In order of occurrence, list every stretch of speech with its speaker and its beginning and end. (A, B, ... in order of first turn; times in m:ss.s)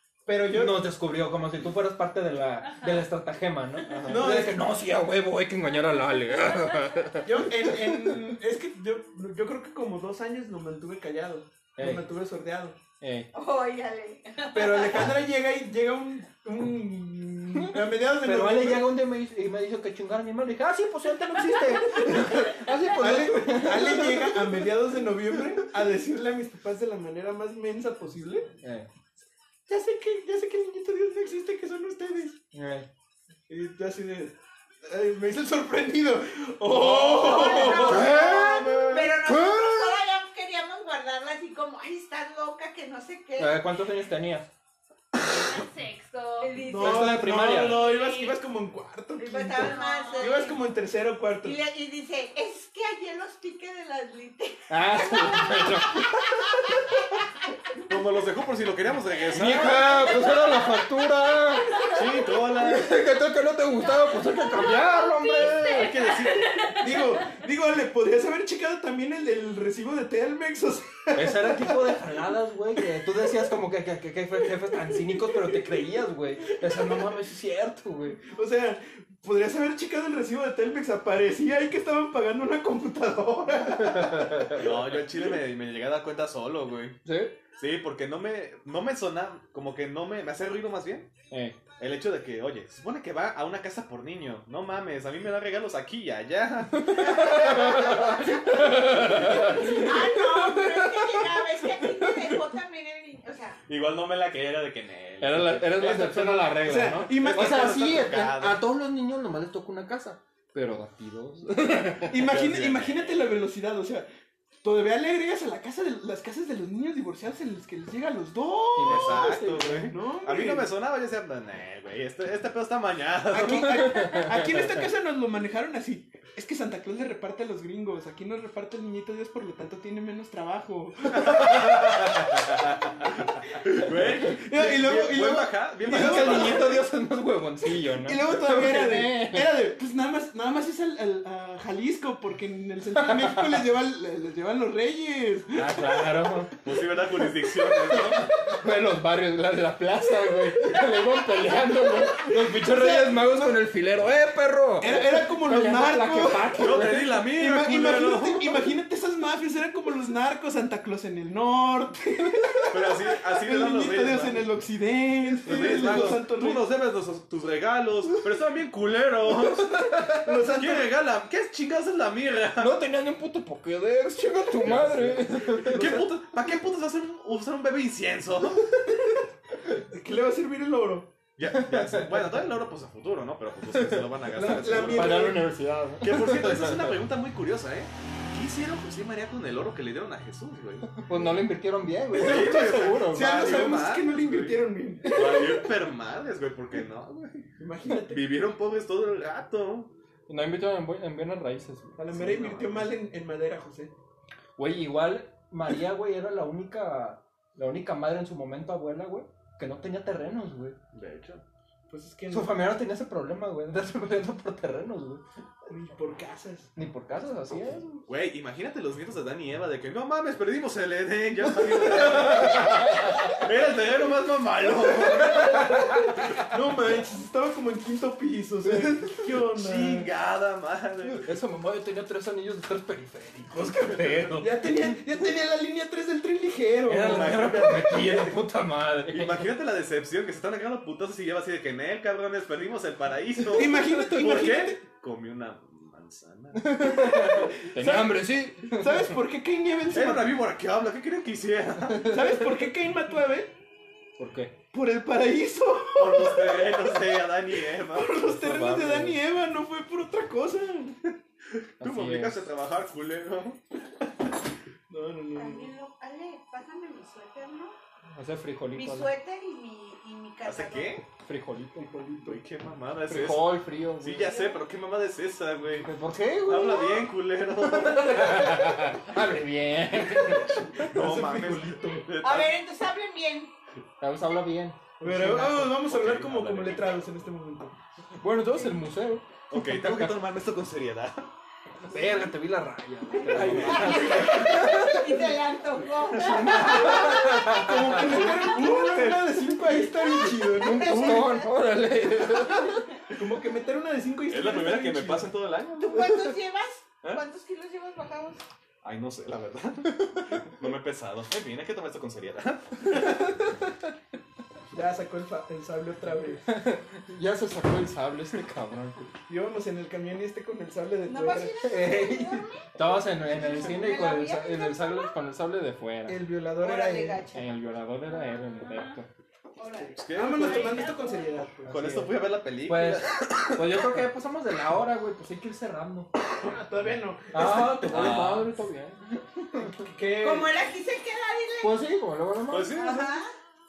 0:00.3-0:00.8 A
0:00.5-0:08.2 B
0:02.7-0:03.0 C
0:03.9-0:04.4 D
0:04.1-0:04.6 A
0:07.2-0:12.8 A
0:11.8-0:12.1 B
0:13.0-0:13.3 B
0:13.3-0:15.2 E
0:14.5-0:18.9 A
0:17.6-0:24.8 B
0:22.1-0:22.4 A
0:23.0-0:28.5 A
0:28.6-0:28.9 B
0:29.7-0:32.4 A
0:32.5-0:32.9 B
0:33.5-0:39.1 A
0:36.9-0:40.0 B
0:37.1-0:43.6 E
0:43.4-0:44.5 B
0:45.2-0:46.6 C
0:46.4-0:47.3 E
0:46.6-0:51.6 A
0:46.8-0:47.9 B
0:47.5-0:48.4 C
0:49.2-0:50.6 E
0:49.5-0:50.5 C
0:51.4-0:57.0 E
0:54.7-0:57.0 B
0:57.9-1:00.0 D
0:59.3-1:01.8 B
0:59.8-1:00.3 C
1:01.7-1:02.2 C
1:01.9-1:03.0 D
1:02.5-1:05.9 B
1:03.8-1:07.4 C
1:05.6-1:06.5 D
1:06.8-1:13.5 A
1:11.2-1:18.2 B
1:14.7-1:15.8 A
1:16.5-1:17.2 A
1:18.2-1:25.3 A
1:23.8-1:24.6 B
1:24.6-1:27.0 D
1:27.0-1:27.4 B
1:27.6-1:31.1 D
1:31.3-1:31.6 B
1:31.8-1:37.5 D
1:36.7-1:41.2 B
1:37.2-1:43.6 E
1:39.2-1:39.9 A
1:43.7-1:46.0 D
1:45.2-1:52.1 B
1:45.8-1:48.1 A
1:47.1-1:48.6 D
1:52.1-1:54.1 A
1:52.2-1:53.5 D
1:54.6-2:00.7 A
1:58.8-1:59.9 B
1:58.8-2:03.8 D
2:03.3-2:11.8 A
2:03.6-2:04.9 B
2:11.1-2:16.6 D
2:14.1-2:16.8 A
2:15.8-2:19.5 B
2:17.9-2:26.8 A
2:23.0-2:23.6 B
2:25.6-2:26.5 B
2:26.6-2:28.4 D
2:27.4-2:28.6 A
2:28.5-2:37.1 B
2:32.3-2:33.6 A
2:34.8-2:46.6 A
2:36.6-2:38.7 D
2:42.7-2:44.5 D
2:45.4-2:49.9 D
2:45.5-2:46.1 B
2:49.6-2:50.3 B
2:50.2-2:50.9 A
2:50.5-2:52.8 D
2:52.6-2:56.0 B
2:54.6-2:58.7 D
2:55.6-2:56.2 A
2:59.9-3:01.1 A
3:01.4-3:05.3 D
3:01.5-3:02.4 B
3:03.8-3:04.0 B
3:04.3-3:05.5 A
3:04.9-3:07.0 B
3:06.0-3:10.9 D
3:11.0-3:13.5 B
3:12.1-3:19.9 D
3:12.2-3:15.4 A
3:17.6-3:18.3 A
3:20.3-3:22.0 B
3:22.0-3:23.9 A
3:22.1-3:22.9 D
3:24.6-3:30.8 B
3:30.9-3:31.4 D
3:31.9-3:32.6 A
3:32.3-3:35.2 B
3:35.7-3:36.7 A
3:36.8-3:38.0 B
3:38.0-3:45.7 D
3:41.8-3:43.4 B
3:42.1-3:42.5 A
3:44.9-3:50.1 A
3:45.1-3:46.4 B
3:48.7-3:49.1 B
3:49.6-3:51.3 D
3:51.1-3:54.9 B
3:54.4-3:57.9 A
3:56.9-3:59.5 B
3:57.0-3:58.4 D
3:59.1-4:07.4 D
4:03.5-4:04.8 A
4:06.6-4:09.2 B
4:07.2-4:10.4 A
4:09.9-4:12.3 D
4:11.9-4:12.4 B
4:12.0-4:13.5 A
4:14.2-4:14.5 B
4:14.7-4:21.1 A
4:16.0-4:18.2 D
4:18.3-4:19.2 B
4:21.6-4:23.6 D
4:21.8-4:22.4 B
4:24.9-4:25.7 A
4:25.4-4:27.8 E
4:28.1-4:29.1 B
4:28.7-4:31.0 E
4:30.4-4:31.0 D
4:31.2-4:32.0 B
4:31.8-4:32.4 A
4:32.2-4:35.9 D
4:33.1-4:34.4 B
4:34.2-4:34.6 E
4:35.8-4:40.6 B
4:36.4-4:38.8 D
4:40.0-4:42.6 D
4:40.8-4:42.1 A
4:42.2-4:43.5 E
4:44.0-4:45.8 B
4:45.0-4:47.7 A
4:45.8-4:47.0 D
4:48.2-4:50.2 B
4:49.5-4:51.3 D
4:51.9-4:55.3 B
4:53.2-4:59.1 E
4:53.3-4:54.4 D
4:53.3-4:54.6 A
4:56.1-4:58.6 B
4:56.6-5:01.4 A
5:00.0-5:01.5 E
5:00.5-5:02.8 B
5:03.1-5:05.3 A
5:04.3-5:06.0 D
5:05.8-5:08.4 E
5:06.0-5:06.3 B
5:08.8-5:12.9 D
5:10.0-5:10.4 B
5:13.0-5:13.6 B
5:14.7-5:16.4 A
5:16.4-5:19.0 B
5:19.3-5:21.6 A
5:21.1-5:25.1 E
5:21.6-5:26.2 B
5:26.1-5:27.2 A
5:26.6-5:27.5 E
5:27.3-5:29.1 B
5:28.6-5:29.0 C
5:29.6-5:31.2 E
5:29.8-5:31.8 A
5:30.0-5:30.8 D
5:30.4-5:31.3 C
5:31.7-5:34.0 D
5:31.7-5:36.1 B
5:36.4-5:38.2 A
5:37.3-5:39.9 B
5:37.9-5:38.5 D
5:39.7-5:40.5 A
5:40.2-5:41.8 E
5:41.6-5:42.9 B
5:42.5-5:43.2 D
5:42.7-5:43.3 E